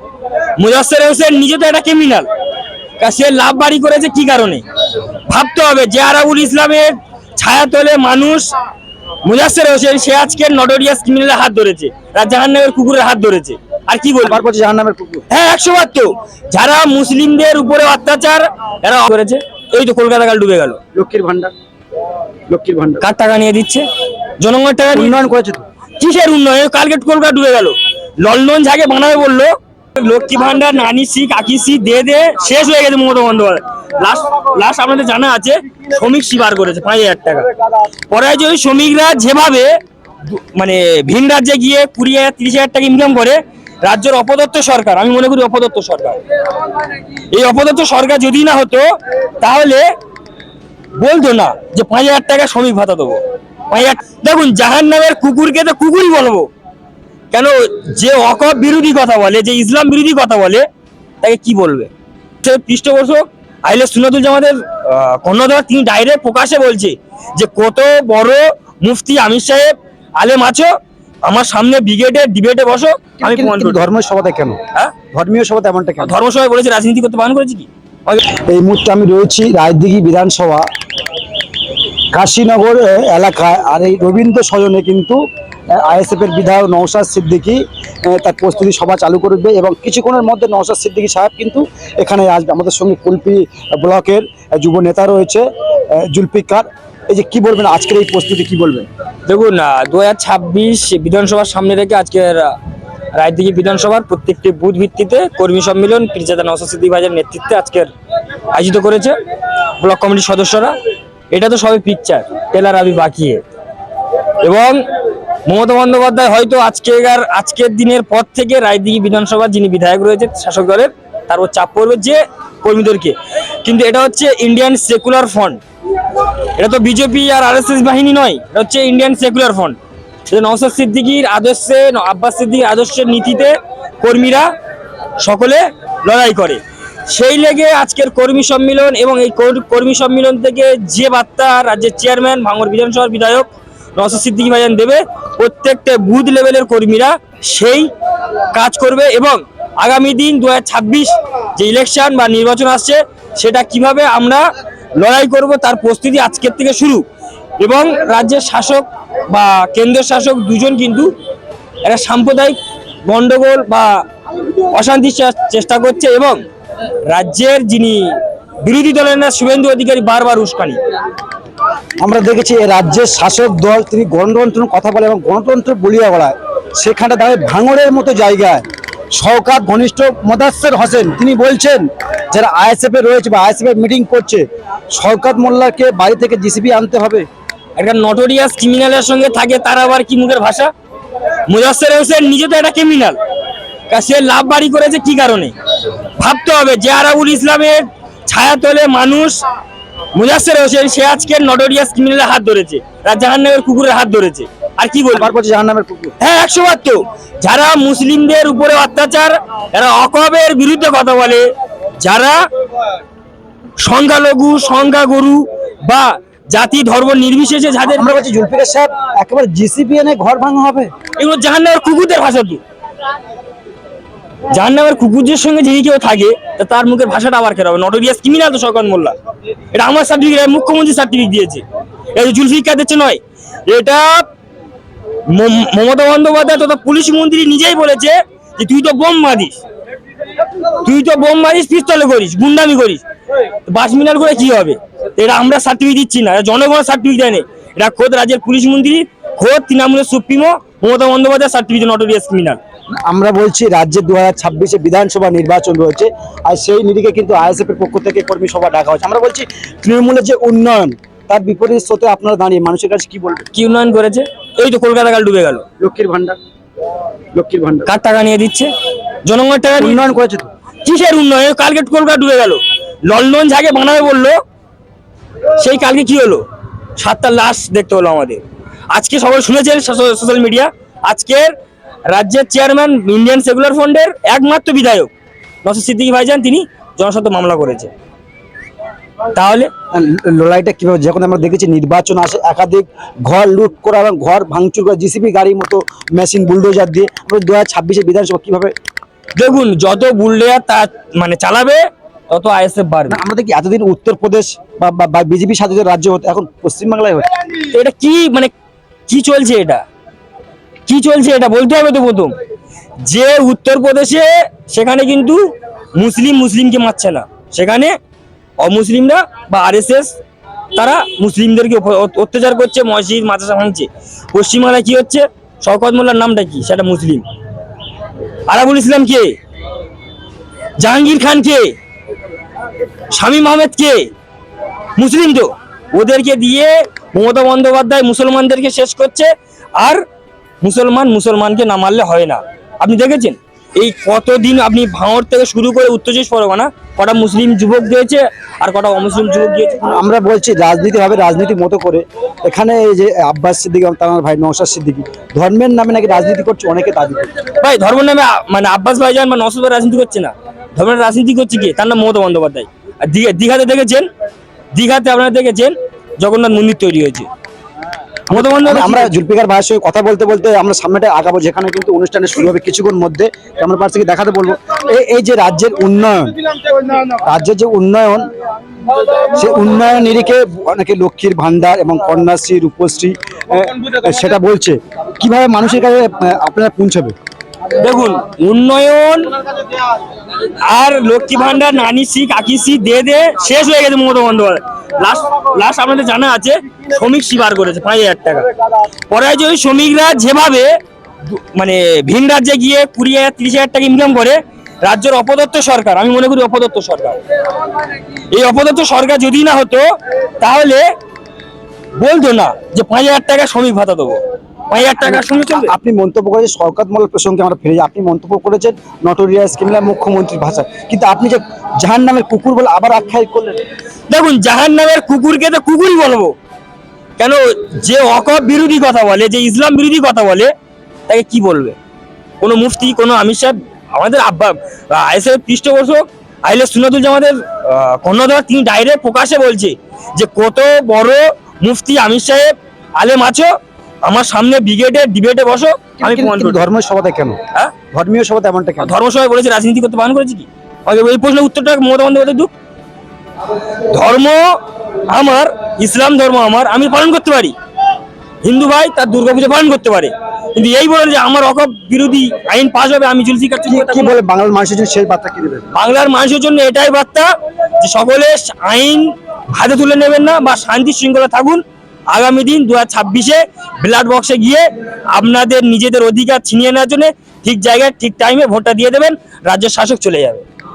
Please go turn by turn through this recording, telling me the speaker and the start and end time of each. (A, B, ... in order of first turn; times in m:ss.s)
0:00.6-0:02.3 A
0:03.0-0:04.6 A
0:05.3-0:08.5 A
0:09.2-0:14.4 A
0:14.2-0:15.2 B
0:15.3-0:20.8 A
0:21.0-0:21.5 B
0:22.5-0:23.0 B
0:23.0-0:23.9 A
0:24.4-0:25.2 A
0:24.9-0:25.6 B
0:26.0-0:37.5 A
0:38.1-0:39.7 A
0:40.3-0:46.2 A
0:47.3-0:48.9 A
0:49.4-0:49.9 A
0:51.0-0:56.5 A
0:57.3-1:00.7 A
1:01.2-1:01.9 A
1:02.4-1:10.7 A
1:11.2-1:13.8 A
1:13.2-1:14.6 B
1:15.1-1:16.1 B
1:16.0-1:18.2 A
1:18.3-1:20.7 B
1:22.2-1:25.2 B
1:25.8-1:38.9 B
1:39.3-1:42.6 A
1:43.1-1:47.9 A
1:48.5-1:49.2 A
1:49.8-1:50.8 A
1:51.3-1:53.4 A
1:54.4-1:54.8 A
1:55.5-2:05.6 A
2:06.6-2:09.8 A
2:10.3-2:14.5 A
2:15.2-2:27.9 A
2:28.5-2:37.0 A
2:37.6-2:41.1 A
2:41.8-2:44.0 A
2:44.7-2:46.4 A
2:47.1-2:50.8 A
2:52.0-2:58.6 B
2:59.1-3:07.3 B
3:07.8-3:10.7 A
3:11.5-3:13.2 A
3:13.9-3:15.5 A
3:16.2-3:19.4 A
3:20.2-3:25.3 A
3:25.1-3:26.1 B
3:26.2-3:31.5 A
3:32.0-3:32.4 A
3:33.8-3:38.2 A
3:37.9-3:40.9 B
3:41.2-3:42.6 A
3:44.5-3:49.1 A
3:49.7-3:54.3 A
3:55.3-3:59.6 A
4:00.8-4:03.0 A
4:03.7-4:12.6 A
4:13.0-4:23.5 B
4:23.5-4:25.6 A
4:25.8-4:26.4 B
4:27.4-4:27.9 B
4:27.9-4:28.7 A
4:29.3-4:30.1 A
4:29.8-4:30.5 B
4:30.8-4:34.4 A
4:35.6-4:36.4 A
4:37.0-4:41.5 A
4:42.1-4:45.1 A
4:45.6-4:47.9 A
4:49.3-4:49.7 A
4:49.9-4:58.7 B
4:59.4-5:03.2 A
5:03.1-5:07.3 B
5:07.7-5:08.5 A
5:09.1-5:09.8 A
5:10.9-5:12.3 A
5:13.0-5:18.0 A
5:18.6-5:20.2 A
5:20.8-5:27.2 A
5:28.5-5:29.4 A
5:30.8-5:31.7 A
5:33.1-5:34.1 A
5:35.0-5:40.0 A
5:40.6-5:49.8 A
5:49.8-5:57.3 B
5:57.6-6:04.1 A
6:04.7-6:07.3 A
6:08.3-6:16.4 B
6:08.3-6:09.1 A
6:16.9-6:18.3 B
6:19.2-6:27.2 B
6:27.8-6:29.4 A
6:30.5-6:38.5 A
6:39.1-6:40.7 A
6:41.3-6:47.2 A
6:48.3-6:49.9 A
6:50.4-6:50.8 A
6:52.0-6:55.7 A
6:55.0-7:03.6 B
7:04.1-7:06.3 A
7:07.2-7:10.5 A
7:11.1-7:11.8 A
7:12.4-7:23.5 A
7:24.0-7:26.6 A
7:26.0-7:27.4 B
7:27.9-7:28.9 B
7:28.8-7:32.5 A
7:33.9-7:37.5 A
7:38.4-7:44.2 A
7:43.7-7:45.7 B
7:45.8-8:00.4 A